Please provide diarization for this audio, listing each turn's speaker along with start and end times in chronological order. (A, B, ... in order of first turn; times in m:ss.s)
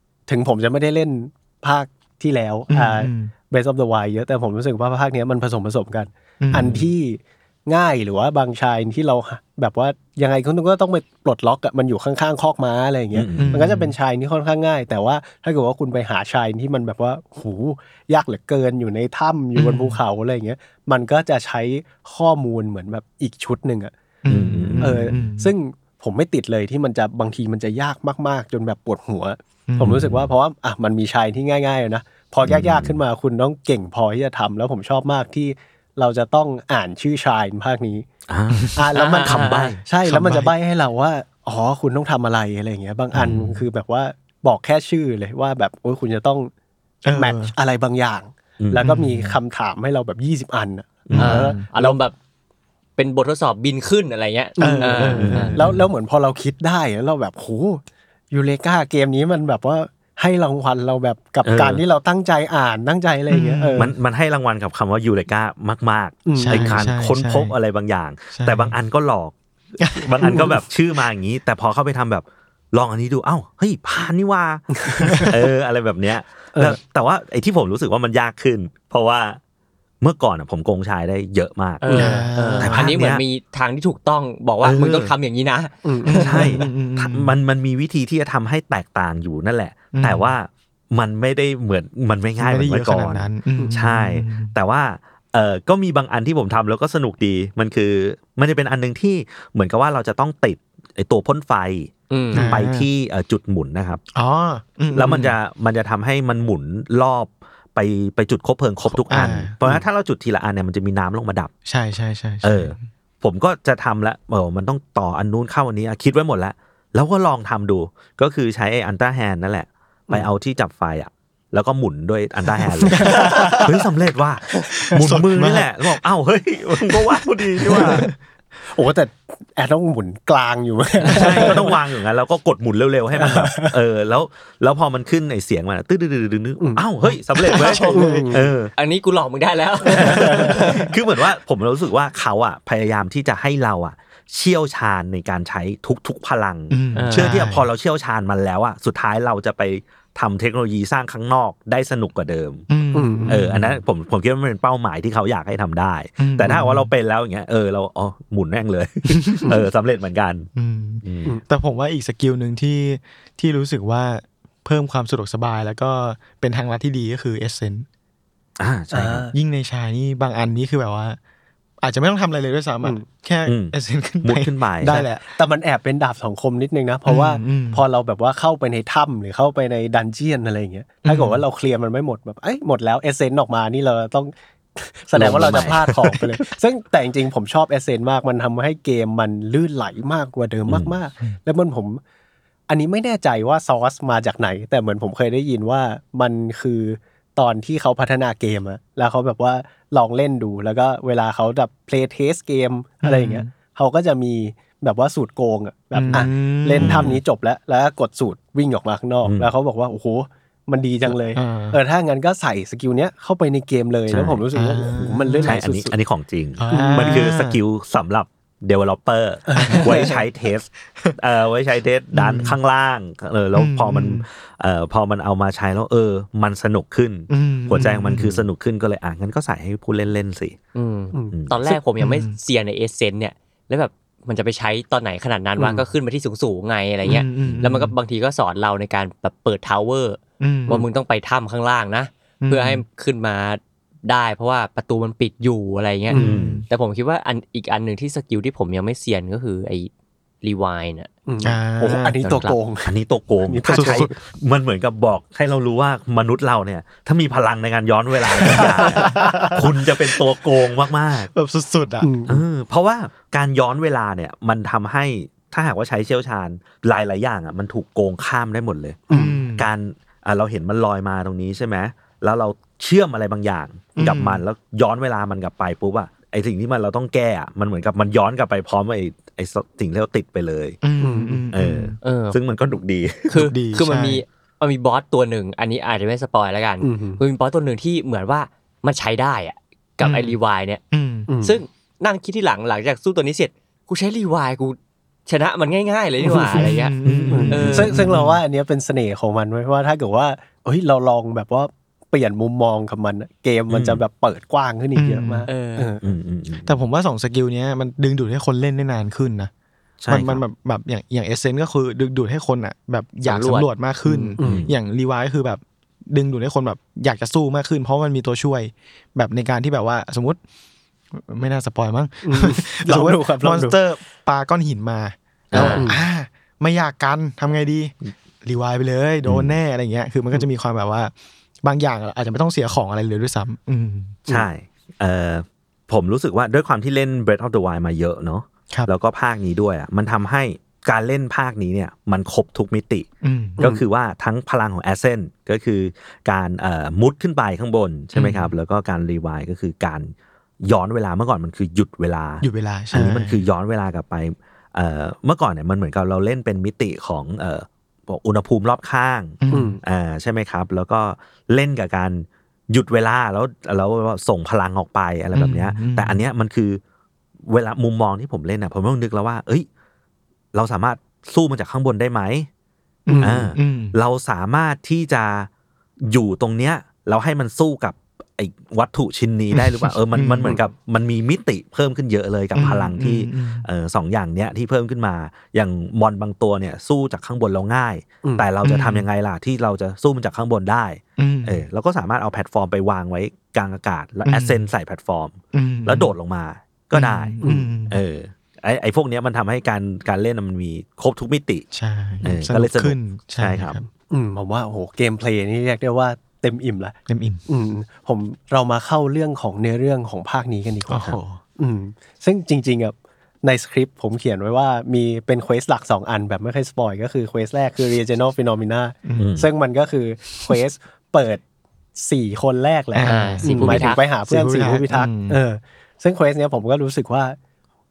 0:00.3-0:23.9 A
0:02.7-0:03.3 B
0:06.4-0:06.8 B
0:06.6-0:06.9 C
0:13.1-0:13.6 C
0:13.3-0:13.9 B
0:19.5-0:20.0 B
0:24.2-0:25.5 B
0:24.3-0:25.1 C
0:24.8-0:38.0 A
0:29.7-0:30.0 B
0:29.8-0:30.3 C
0:32.4-0:33.0 C
0:38.3-0:39.8 C
0:38.7-0:46.5 A
0:38.9-0:39.8 D
0:40.0-0:40.5 B
0:43.1-0:43.6 C
0:47.0-0:47.5 B
0:47.2-0:52.0 A
0:48.6-0:48.8 C
0:48.8-0:49.4 B
0:51.1-0:51.5 C
0:51.1-0:51.6 B
0:51.2-0:52.2 D
0:53.0-0:55.6 D
0:54.6-1:03.9 A
0:54.6-0:55.8 B
0:55.2-0:55.8 C
1:01.4-1:01.8 C
1:03.3-1:03.9 B
1:03.8-1:09.3 C
1:06.3-1:06.9 A
1:06.4-1:07.5 B
1:08.3-1:08.8 B
1:09.8-1:10.5 B
1:09.9-1:19.4 C
1:10.2-1:10.6 A
1:14.8-1:15.4 A
1:15.1-1:15.3 B
1:20.0-1:23.2 C
1:21.8-1:26.3 D
1:21.9-1:22.9 B
1:24.6-1:25.1 C
1:25.8-1:26.7 A
1:26.0-1:27.4 B
1:26.2-1:44.0 C
1:29.9-1:30.3 B
1:32.4-1:34.6 B
1:42.1-1:42.5 D
1:42.3-1:42.9 B
1:44.1-1:45.4 B
1:44.9-1:51.5 C
1:48.9-1:49.5 B
1:51.6-1:52.8 B
1:52.4-2:08.0 C
2:02.6-2:03.7 B
2:02.9-2:03.7 A
2:04.7-2:06.0 B
2:07.6-2:08.1 B
2:07.8-2:08.0 A
2:08.7-2:11.8 A
2:11.1-2:18.7 C
2:13.2-2:13.8 A
2:17.0-2:18.3 B
2:17.4-2:18.5 A
2:18.7-2:20.9 D
2:20.0-2:32.7 C
2:20.0-2:20.6 A
2:20.2-2:20.7 B
2:26.7-2:27.7 B
2:26.9-2:27.3 D
2:32.7-2:33.8 B
2:32.9-2:33.4 A
2:33.3-2:40.5 C
2:36.2-2:36.9 B
2:39.1-2:39.5 B
2:40.5-2:47.9 B
2:41.0-2:41.3 C
2:48.6-2:49.3 C
2:48.9-2:49.3 A
2:49.3-2:51.2 B
2:51.8-2:55.2 B
2:53.4-2:55.0 C
2:54.9-3:12.0 A
2:57.0-2:57.8 B
3:01.0-3:01.4 B
3:05.1-3:06.2 C
3:10.7-3:10.9 C
3:12.7-3:35.9 A
3:23.0-3:23.5 B
3:25.9-3:27.2 B
3:26.1-3:27.2 C
3:29.2-3:29.5 C
3:31.0-3:31.8 B
3:34.1-3:34.4 C
3:34.5-3:35.6 B
3:35.4-3:50.6 C
3:36.6-3:37.6 B
3:36.7-3:37.3 A
3:39.5-3:40.2 A
3:39.6-3:40.0 B
3:42.1-3:42.6 B
3:43.5-3:44.2 B
3:47.3-3:48.5 B
3:50.7-4:09.9 D
3:51.7-3:52.4 B
3:55.6-3:55.8 A
3:57.0-3:57.9 B
4:00.4-4:00.8 B
4:02.4-4:02.8 B
4:06.1-4:06.6 B
4:06.1-4:06.6 C
4:10.4-4:11.1 D
4:11.2-4:12.9 A
4:11.4-4:12.2 B
4:12.2-4:12.6 D
4:12.8-4:21.3 C
4:13.4-4:14.1 A
4:13.7-4:14.1 B
4:18.3-4:19.6 A
4:18.4-4:19.6 B
4:21.2-4:22.1 B
4:22.0-4:22.4 A
4:22.3-4:40.8 C
4:29.1-4:29.4 A
4:29.1-4:29.7 B
4:34.0-4:34.4 B
4:40.8-4:42.0 B
4:41.0-4:41.4 A
4:41.5-4:43.4 C
4:42.0-4:42.4 D
4:43.3-4:50.8 D
4:43.3-4:44.2 B
4:46.8-4:47.2 A
4:50.0-4:50.4 B
4:50.9-4:51.3 B
4:51.3-4:51.6 A
4:51.4-4:57.0 D
4:56.2-4:56.7 A
4:56.3-4:58.4 B
4:57.0-4:57.9 C
4:57.3-5:06.0 A
4:57.5-4:58.0 D
5:03.7-5:04.0 C
5:04.9-5:05.5 B
5:05.5-5:05.9 D
5:06.0-5:06.8 C
5:06.6-5:09.5 B
5:10.0-5:10.4 C
5:10.1-5:20.4 B
5:13.2-5:14.4 D
5:14.4-5:14.7 C
5:21.1-5:31.1 B
5:22.2-5:23.8 A
5:25.5-5:25.8 C
5:25.5-5:26.0 A
5:25.5-5:25.8 D
5:29.2-5:29.5 C
5:31.6-5:34.2 B
5:34.3-5:43.1 C
5:43.2-5:43.6 B
5:43.6-5:43.8 A
5:43.6-6:06.8 C
5:48.1-5:48.5 B
5:52.4-5:53.4 B
5:59.4-5:59.8 B
5:59.5-5:59.8 A
6:05.3-6:06.2 B
6:07.5-6:09.7 C
6:10.5-6:12.5 C
6:13.0-6:13.9 B
6:13.1-6:13.5 A
6:13.2-6:15.5 C
6:16.0-6:41.6 C
6:19.5-6:20.6 B
6:22.5-6:23.6 B
6:28.6-6:29.1 B
6:31.2-6:31.6 B
6:34.2-6:34.7 B
6:35.5-6:36.1 B
6:36.9-6:38.0 B
6:37.4-6:37.7 A
6:41.7-6:43.9 B
6:42.2-6:43.8 C
6:44.1-6:47.0 A
6:47.1-6:47.4 B
6:47.5-7:01.4 A
6:50.9-6:51.4 B
6:59.2-6:59.5 C
7:02.0-7:07.4 A
7:02.9-7:05.4 B
7:03.0-7:04.0 D